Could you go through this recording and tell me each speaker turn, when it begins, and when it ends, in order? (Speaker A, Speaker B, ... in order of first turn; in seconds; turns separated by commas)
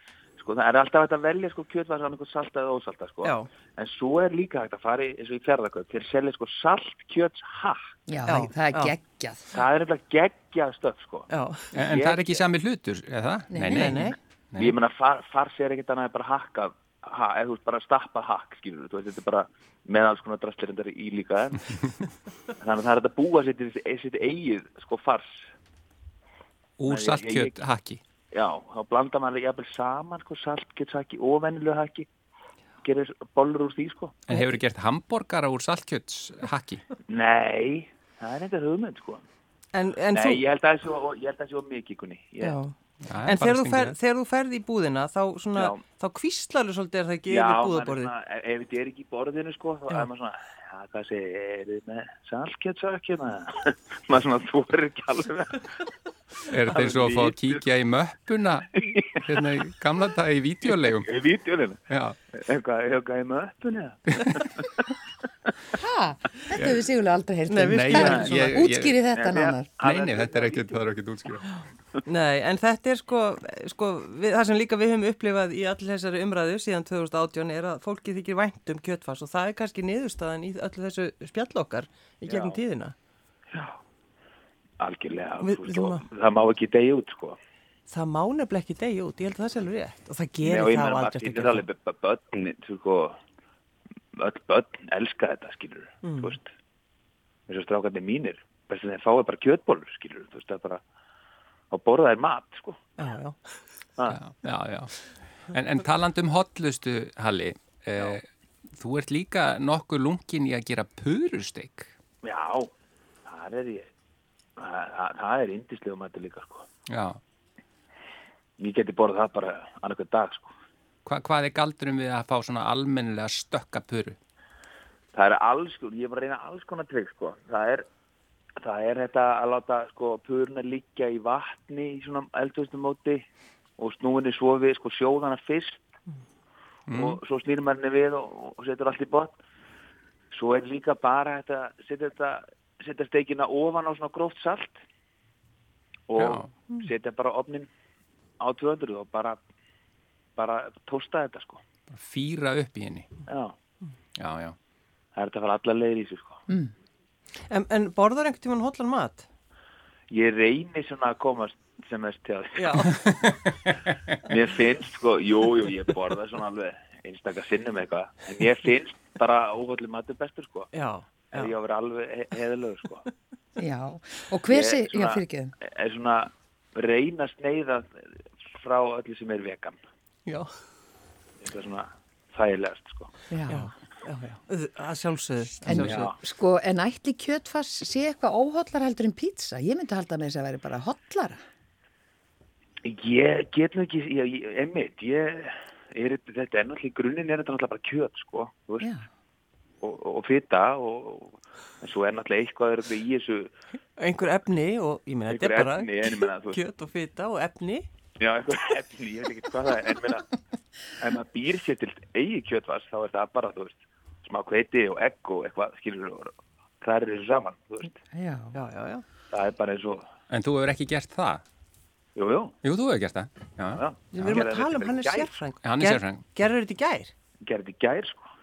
Speaker A: 0.4-7.8, Speaker B: 3.2-3.5, Speaker C: 8.1-9.5, Speaker B: 8.3-8.9, Speaker A: 9.5-11.3, Speaker B: 11.3-11.7, Speaker D: 11.7-14.7, Speaker A: 11.9-12.4, Speaker C: 13.5-14.1, Speaker B: 13.7-14.2, Speaker A: 14.6-21.8, Speaker A: 22.6-25.5, Speaker D: 26.8-28.0, Speaker A: 26.9-27.5, Speaker A: 28.3-32.1, Speaker A: 32.8-34.2, Speaker D: 34.3-36.8, Speaker A: 37.1-39.2, Speaker B: 39.7-40.4, Speaker A: 40.1-42.6, Speaker B: 42.4-42.7, Speaker D: 43.0-44.0, Speaker B: 43.2-48.1, Speaker A: 45.5-45.8, Speaker A: 47.3-55.7, Speaker D: 56.5-61.1, Speaker A: 56.6-57.5, Speaker A: 60.8-64.8, Speaker D: 61.9-62.2, Speaker C: 65.7-69.7, Speaker D: 66.5-66.8, Speaker B: 67.5-68.7, Speaker D: 67.7-69.0, Speaker A: 67.9-68.3, Speaker A: 69.1-70.8, Speaker D: 69.8-71.5, Speaker B: 72.0-82.9, Speaker A: 82.3-82.6, Speaker A: 84.8-87.4, Speaker B: 85.4-86.0, Speaker B: 87.9-91.6, Speaker A: 90.4-93.2, Speaker A: 94.2-96.5, Speaker B: 96.0-96.4, Speaker A: 97.5-100.8, Speaker A: 101.7-102.8, Speaker B: 103.0-103.4, Speaker D: 104.1-111.9, Speaker A: 112.2-112.7, Speaker A: 113.2-113.9, Speaker A: 114.6-116.7, Speaker D: 116.9-117.2, Speaker A: 118.6-120.5, Speaker D: 121.0-124.2, Speaker A: 125.1-127.8, Speaker A: 128.6-133.2, Speaker A: 133.8-135.9, Speaker D: 136.9-137.2, Speaker A: 136.9-139.4, Speaker A: 140.3-144.8, Speaker A: 146.1-147.7, Speaker D: 146.2-146.5, Speaker A: 148.4-149.4, Speaker A: 150.4-151.6, Speaker D: 151.9-153.1, Speaker A: 153.3-153.5, Speaker D: 154.2-154.6, Speaker A: 155.2-156.4, Speaker B: 157.5-159.2, Speaker A: 160.1-163.0, Speaker B: 162.6-162.9, Speaker D: 163.2-163.7, Speaker A: 164.2-170.7, Speaker B: 170.7-171.5, Speaker A: 171.3-173.1, Speaker C: 173.6-175.5, Speaker A: 174.5-179.8, Speaker A: 181.4-183.1, Speaker C: 183.3-183.7, Speaker B: 183.5-186.1, Speaker C: 185.6-191.4, Speaker A: 185.8-186.2, Speaker A: 192.8-198.9, Speaker C: 198.8-199.1, Speaker A: 199.8-203.5, Speaker B: 203.9-207.9, Speaker A: 205.3-206.6, Speaker A: 208.2-210.3, Speaker A: 211.0-218.0, Speaker C: 218.1-218.6, Speaker B: 218.5-219.0, Speaker A: 219.3-220.0, Speaker D: 220.3-221.4, Speaker A: 222.2-222.6, Speaker D: 222.6-224.5, Speaker A: 223.7-225.3, Speaker B: 224.1-227.1, Speaker D: 225.6-226.2, Speaker A: 227.4-228.3